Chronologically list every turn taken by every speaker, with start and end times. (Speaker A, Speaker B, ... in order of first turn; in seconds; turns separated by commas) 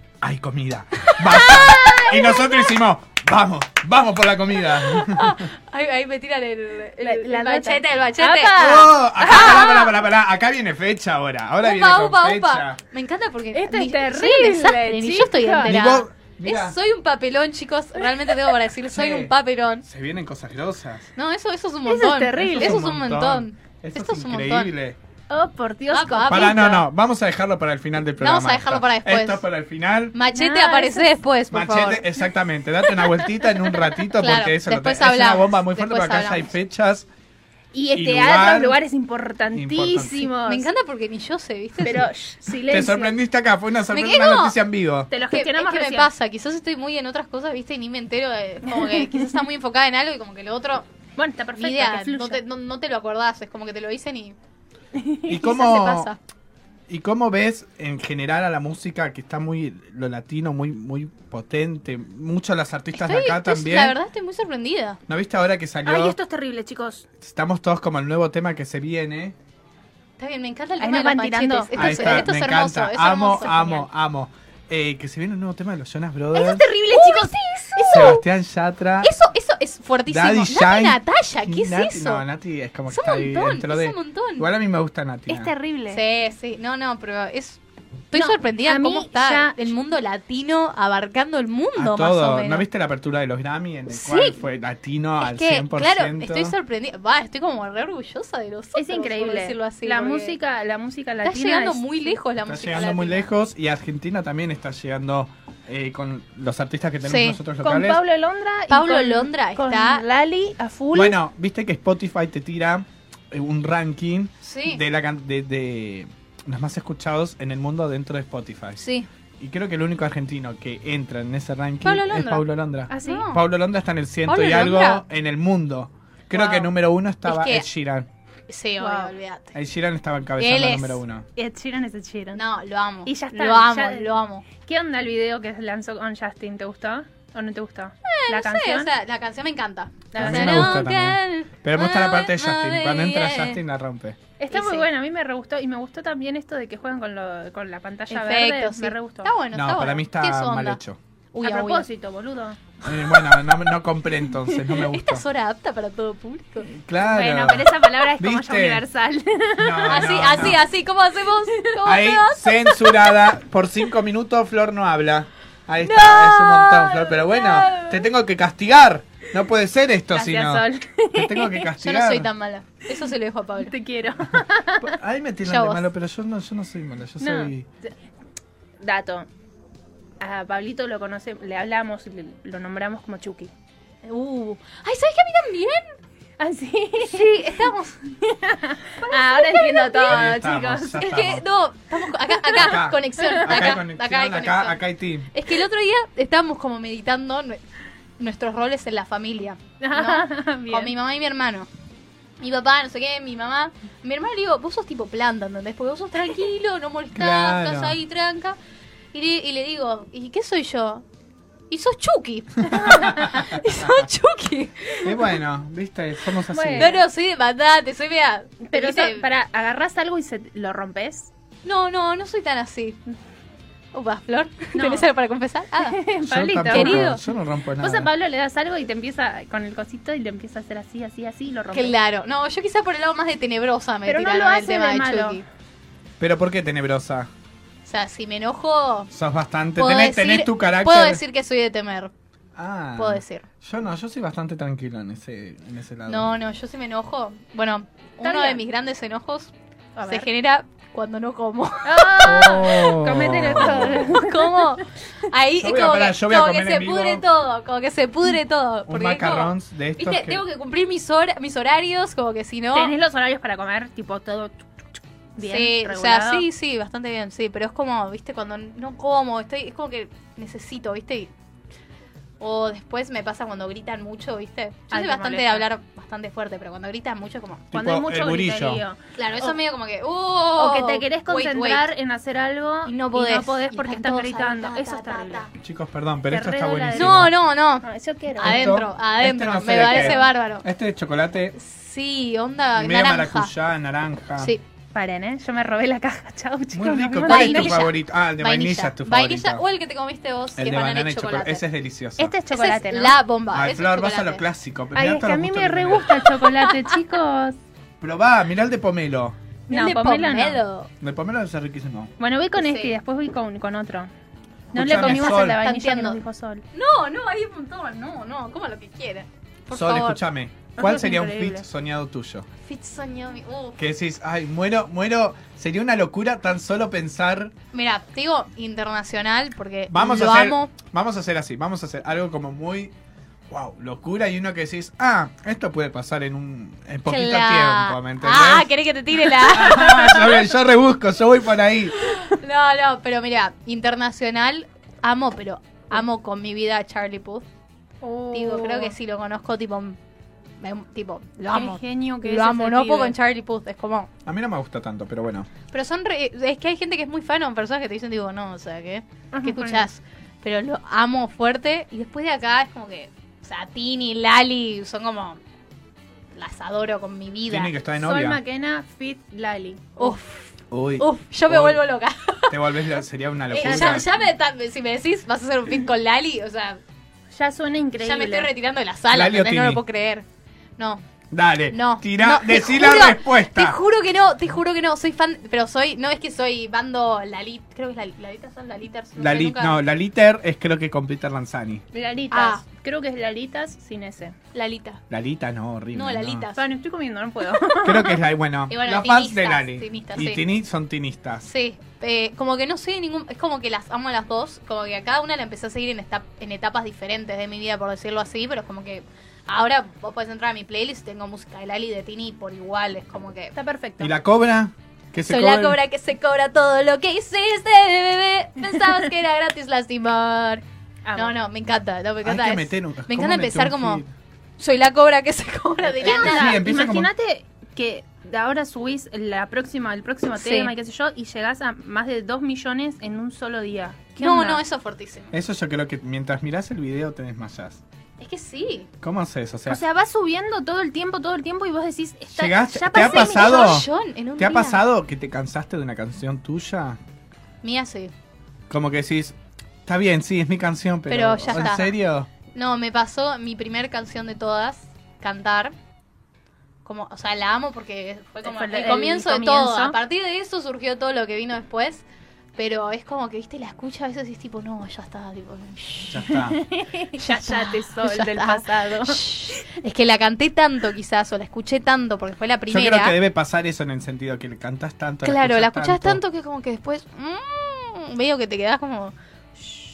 Speaker A: 0.2-5.5, Speaker B: 1.0-2.7, Speaker B: 4.7-9.9, Speaker C: 7.0-9.9, Speaker A: 8.6-12.8, Speaker B: 11.6-19.8, Speaker C: 13.5-15.8, Speaker A: 15.6-16.8, Speaker A: 18.9-21.1, Speaker B: 21.1-24.7, Speaker C: 21.9-22.8, Speaker A: 22.4-25.0, Speaker C: 25.3-26.7, Speaker B: 25.9-26.9, Speaker A: 26.3-30.1, Speaker B: 28.2-29.4, Speaker B: 30.1-32.0, Speaker C: 30.3-31.1, Speaker A: 31.5-37.1, Speaker B: 34.0-36.5, Speaker C: 37.7-40.7, Speaker A: 37.9-38.8, Speaker A: 39.5-40.3, Speaker B: 40.1-42.1, Speaker C: 41.8-43.1, Speaker A: 42.6-45.1, Speaker B: 43.9-44.6, Speaker C: 45.1-46.1, Speaker B: 45.3-50.9, Speaker C: 48.7-49.3, Speaker C: 51.1-52.4, Speaker B: 51.6-54.4, Speaker C: 54.9-55.3, Speaker A: 55.3-56.1, Speaker B: 55.3-56.2, Speaker A: 56.9-64.0, Speaker B: 62.9-65.0, Speaker A: 65.1-66.2, Speaker C: 65.8-67.1, Speaker A: 67.2-69.3, Speaker B: 70.2-73.9, Speaker C: 70.8-72.2, Speaker A: 71.7-76.7, Speaker C: 76.3-78.1, Speaker B: 76.8-78.2, Speaker A: 77.9-79.1, Speaker B: 79.0-82.2, Speaker A: 80.1-85.5, Speaker B: 82.9-84.5, Speaker C: 85.3-86.0, Speaker B: 85.9-92.6, Speaker C: 88.1-89.6, Speaker A: 91.8-96.5, Speaker B: 93.9-94.4, Speaker B: 95.2-100.3, Speaker C: 98.7-102.2, Speaker B: 101.2-103.3, Speaker A: 102.4-108.0, Speaker B: 107.0-107.4, Speaker C: 107.6-111.2, Speaker B: 108.7-110.0, Speaker A: 110.9-118.8, Speaker B: 114.4-114.8, Speaker B: 118.8-119.1, Speaker A: 119.4-128.1, Speaker B: 121.8-123.4, Speaker C: 122.9-123.3, Speaker B: 124.2-125.0, Speaker B: 126.3-126.7, Speaker B: 127.2-127.7, Speaker B: 128.5-129.5, Speaker C: 128.8-129.1, Speaker A: 129.5-131.2, Speaker B: 130.4-131.0, Speaker C: 131.3-132.4, Speaker B: 132.3-134.5, Speaker C: 133.0-138.9, Speaker B: 138.0-143.6, Speaker C: 140.1-140.8, Speaker A: 140.1-144.2, Speaker C: 144.4-149.3, Speaker B: 144.5-144.8, Speaker B: 148.1-150.8, Speaker A: 149.5-151.0, Speaker B: 151.3-151.8, Speaker C: 151.4-152.7, Speaker A: 152.8-155.2, Speaker B: 154.7-156.7, Speaker A: 156.7-158.8, Speaker C: 157.0-160.5, Speaker A: 159.6-160.6, Speaker B: 159.9-163.0, Speaker A: 161.8-172.3, Speaker B: 165.8-168.0, Speaker C: 170.1-171.7, Speaker B: 171.8-173.7, Speaker C: 173.6-174.9, Speaker A: 174.3-177.7, Speaker B: 175.4-175.9, Speaker C: 177.2-177.9, Speaker C: 178.8-179.3, Speaker C: 180.2-183.5, Speaker B: 184.0-185.9, Speaker C: 186.4-191.1, Speaker B: 187.0-188.0, Speaker B: 189.0-190.2, Speaker A: 190.1-191.4, Speaker B: 191.0-197.6, Speaker C: 192.4-193.8, Speaker A: 192.5-195.3, Speaker B: 198.2-201.7, Speaker C: 199.8-200.9, Speaker B: 202.4-208.6, Speaker A: 207.1-208.0, Speaker B: 209.1-211.0, Speaker B: 211.7-215.3, Speaker A: 212.7-213.9, Speaker A: 215.0-217.0, Speaker C: 216.5-217.0, Speaker B: 216.7-219.2, Speaker C: 218.7-221.3, Speaker B: 221.6-223.0, Speaker B: 223.9-226.0, Speaker C: 224.7-225.1, Speaker C: 225.8-227.2, Speaker A: 226.2-228.1, Speaker B: 226.7-227.2, Speaker C: 227.8-231.9, Speaker B: 231.7-235.4, Speaker C: 234.1-235.4, Speaker A: 236.2-237.3, Speaker B: 237.8-239.1, Speaker A: 239.1-241.2, Speaker B: 239.8-242.1, Speaker A: 242.6-246.3, Speaker B: 243.0-243.4, Speaker B: 246.1-249.5, Speaker C: 248.2-248.6, Speaker C: 249.9-250.3, Speaker B: 250.0-252.6, Speaker C: 251.8-254.8, Speaker A: 252.2-254.1, Speaker B: 253.6-262.9, Speaker A: 255.6-257.2, Speaker A: 258.9-260.4, Speaker C: 262.7-266.4, Speaker B: 265.4-271.3, Speaker B: 272.4-277.7, Speaker C: 274.9-275.6, Speaker A: 277.7-278.8, Speaker C: 277.7-279.6, Speaker B: 279.1-281.9, Speaker C: 280.6-285.5, Speaker B: 282.9-285.5, Speaker A: 285.6-287.3, Speaker C: 286.3-288.7, Speaker B: 286.9-290.6, Speaker A: 288.4-291.6, Speaker C: 289.8-290.2, Speaker B: 291.5-293.5, Speaker A: 292.8-294.5, Speaker C: 294.9-297.8, Speaker A: 296.7-299.6, Speaker B: 297.2-301.6, Speaker A: 300.6-302.3, Speaker C: 302.2-303.2, Speaker B: 302.5-304.4, Speaker A: 303.5-306.2, Speaker C: 304.9-307.6, Speaker B: 306.3-306.9, Speaker A: 308.0-309.4, Speaker B: 309.7-310.9, Speaker C: 309.7-310.6, Speaker A: 311.0-312.1, Speaker C: 312.2-314.1, Speaker B: 312.6-313.0, Speaker C: 314.7-316.6, Speaker A: 314.7-315.6, Speaker B: 314.9-316.2, Speaker B: 316.7-320.2, Speaker A: 319.7-322.5, Speaker C: 320.7-321.6, Speaker B: 322.6-323.8, Speaker A: 323.8-327.5, Speaker B: 327.7-330.7, Speaker A: 329.9-332.9, Speaker A: 333.5-338.7, Speaker B: 337.1-340.4, Speaker A: 339.3-341.9, Speaker B: 342.0-347.4, Speaker C: 348.0-348.9, Speaker B: 348.3-350.0, Speaker B: 350.6-354.1, Speaker C: 351.5-353.1, Speaker A: 354.2-355.5, Speaker B: 355.7-365.4, Speaker C: 359.3-359.9, Speaker B: 366.3-367.7, Speaker A: 367.5-368.4, Speaker C: 368.0-370.2, Speaker B: 370.0-372.6, Speaker A: 370.7-371.8, Speaker A: 372.5-374.1, Speaker B: 373.5-376.8, Speaker C: 373.6-374.0, Speaker C: 377.3-378.5, Speaker B: 378.0-380.2, Speaker A: 379.1-379.8, Speaker B: 380.8-381.0, Speaker A: 381.3-383.8, Speaker B: 381.7-389.8, Speaker A: 389.2-391.8, Speaker C: 391.9-394.3, Speaker B: 392.3-392.6, Speaker B: 394.5-395.0, Speaker A: 395.1-396.5, Speaker B: 395.9-396.6, Speaker C: 396.6-398.2, Speaker A: 397.8-401.4, Speaker B: 398.7-400.4, Speaker B: 401.4-413.5, Speaker C: 413.5-414.1, Speaker A: 414.0-415.8, Speaker B: 415.3-420.6, Speaker C: 421.0-421.4, Speaker B: 421.1-424.0, Speaker A: 422.2-424.1, Speaker B: 424.6-426.6, Speaker A: 426.0-427.1, Speaker C: 426.0-434.6, Speaker B: 430.3-430.7, Speaker B: 434.2-435.3, Speaker A: 435.3-437.8, Speaker B: 438.2-438.9, Speaker A: 439.0-439.8, Speaker C: 439.7-443.8, Speaker A: 442.3-447.0, Speaker B: 442.9-444.8, Speaker B: 447.6-448.1, Speaker A: 448.7-452.3, Speaker B: 451.1-451.9, Speaker B: 452.5-455.7, Speaker B: 456.8-462.0, Speaker C: 458.4-460.0, Speaker B: 462.6-466.4, Speaker A: 466.1-466.6, Speaker C: 466.4-469.3, Speaker B: 467.1-473.2, Speaker A: 472.7-476.2, Speaker B: 475.2-479.8